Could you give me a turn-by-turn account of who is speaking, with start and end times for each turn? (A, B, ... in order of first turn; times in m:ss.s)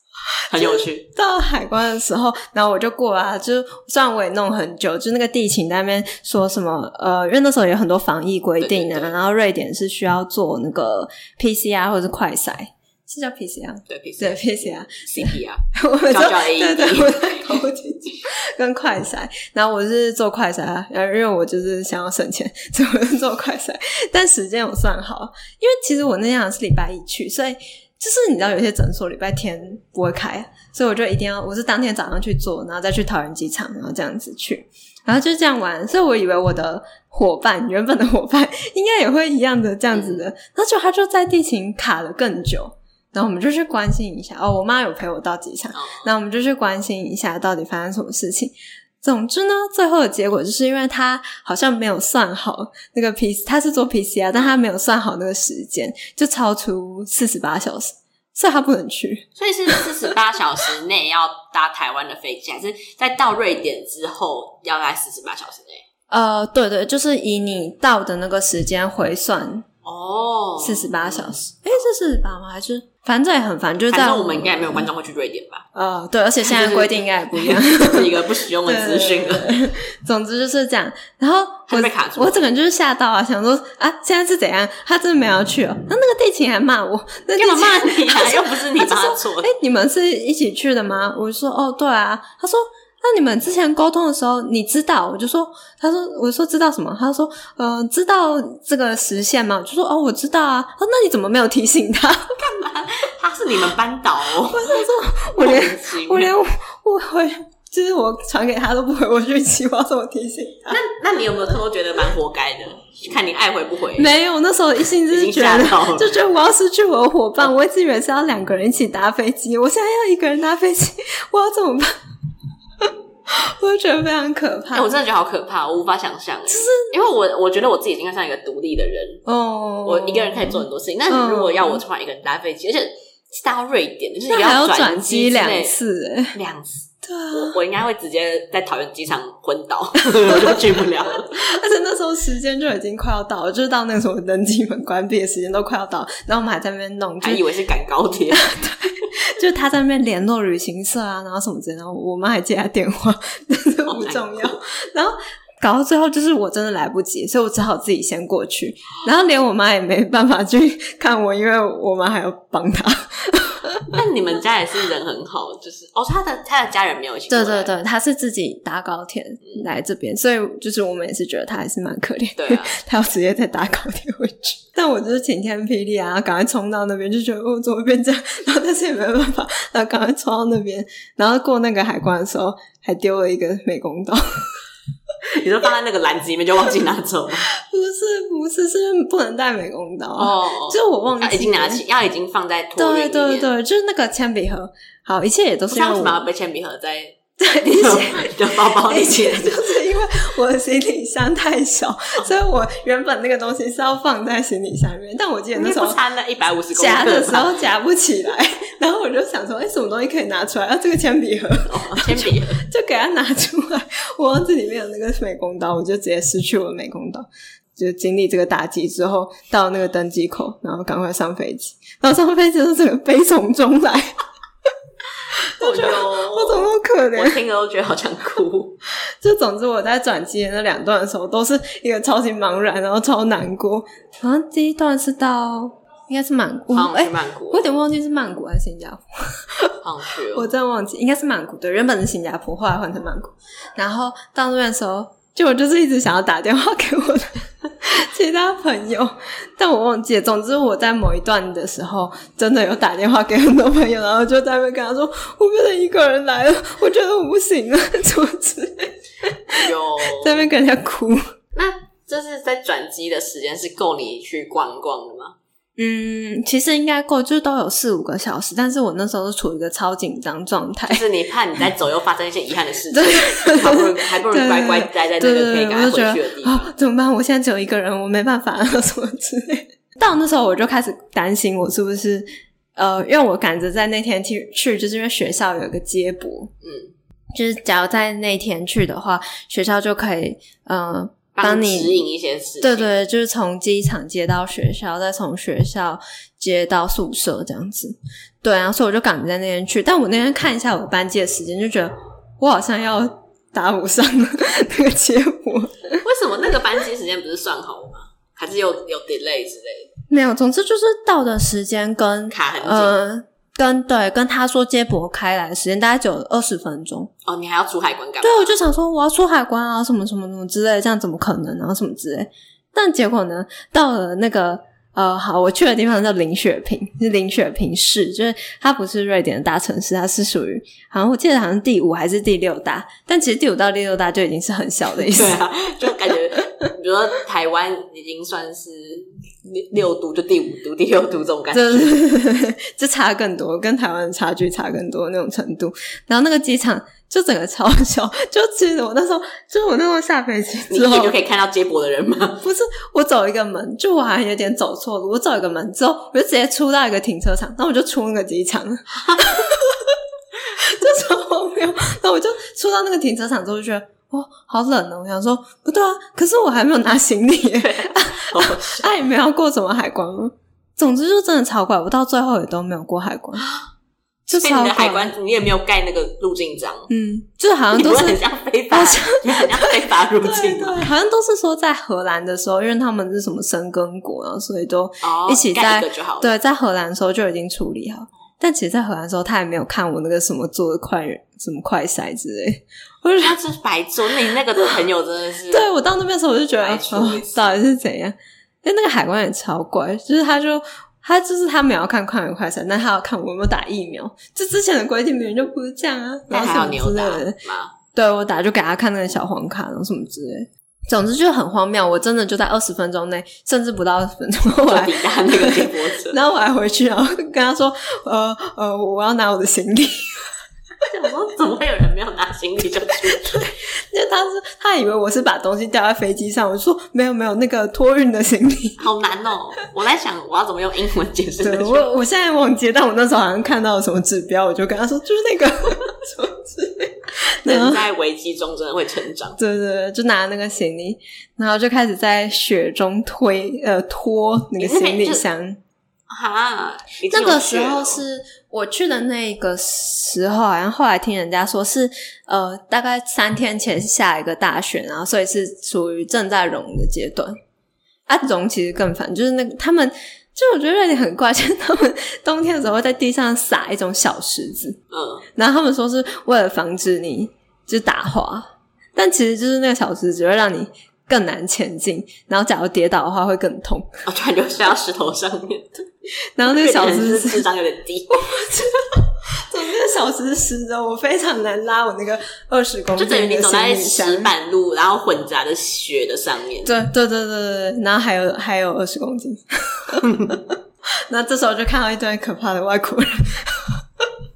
0:00.5-0:59.9 A
0:00.5-0:01.1 B
0:08.6-0:09.2 B
0:13.9-0:17.6 B
0:39.9-0:40.3 B
0:45.7-0:46.1 B
0:54.3-0:54.6 B
0:59.4-1:05.8 B
1:06.1-1:09.7 A
1:09.8-1:11.4 B
1:10.6-1:14.9 A
1:13.9-1:15.6 B
1:15.7-1:42.3 A
1:16.4-1:19.5 B
1:21.7-1:22.5 B
1:27.4-1:29.5 B
1:42.4-1:46.3 B
1:44.5-1:50.8 A
1:50.7-1:54.1 B
1:54.0-2:02.0 A
1:55.1-1:56.1 B
2:02.8-2:05.0 A
2:04.7-2:09.2 B
2:06.5-2:06.9 A
2:09.3-2:11.8 A
2:09.8-2:15.8 B
2:14.3-2:16.4 A
2:16.3-2:21.4 B
2:17.0-2:17.6 A
2:20.2-2:20.6 A
2:21.2-2:27.4 A
2:27.2-2:28.5 B
2:28.3-2:43.9 A
2:33.9-2:34.6 B
2:43.9-2:47.7 B
2:47.3-3:04.5 A
2:52.4-2:52.8 B
3:05.3-3:07.5 B
3:07.5-3:11.8 A
3:10.2-3:13.5 B
3:12.8-3:16.3 A
3:15.7-3:19.6 B
3:17.4-3:26.0 A
3:25.6-3:27.5 B
3:26.7-3:44.1 A
3:31.7-3:32.6 B
3:45.4-3:47.4 A
3:45.6-3:48.8 B
3:49.2-3:59.8 A
3:56.7-3:57.7 B
3:59.8-4:00.5 B
4:00.3-4:21.3 A
4:19.6-4:20.5 B
4:21.6-4:25.4 B
4:25.8-4:31.0 A
4:30.9-4:36.7 B
4:32.9-4:46.5 A
4:46.6-4:46.9 B
4:47.4-4:52.0 A
4:51.4-4:52.9 B
4:52.6-5:06.0 A
5:06.0-5:09.9 B
5:10.1-5:17.1 A
5:12.3-5:13.0 B
5:17.2-5:18.6 B
5:18.2-5:36.7 A
5:34.9-5:42.0 B
5:41.5-5:51.1 A
5:50.7-5:52.4 B
5:52.4-6:00.0 A
6:00.6-6:13.5 A
6:07.6-6:08.9 B
6:13.4-6:13.6 B
6:14.3-6:15.2 A
6:14.3-6:16.9 B
6:16.9-6:33.4 A
6:17.7-6:20.9 B
6:25.0-6:26.3 B
6:33.2-6:35.7 B
6:35.5-6:47.4 A
6:36.6-6:37.6 B
6:46.3-6:47.7 B
6:47.9-7:00.2 A
6:54.6-6:56.2 B
7:00.9-7:03.4 B
7:03.2-7:08.8 A
7:08.8-7:11.9 B
7:11.4-7:17.8 A
7:17.5-7:19.4 B
7:19.4-7:25.6 A
7:24.6-7:25.2 B
7:26.1-7:28.0 B
7:27.1-7:37.4 A
7:38.1-7:44.8 A
7:44.9-7:45.2 B
7:45.4-7:54.0 A
7:54.1-7:55.9 B
7:56.4-7:57.4 A
7:56.4-7:58.2 B
7:58.1-8:04.3 A
8:03.0-8:06.7 B
8:06.6-8:10.5 A
8:10.0-8:10.3 B
8:11.1-8:13.8 A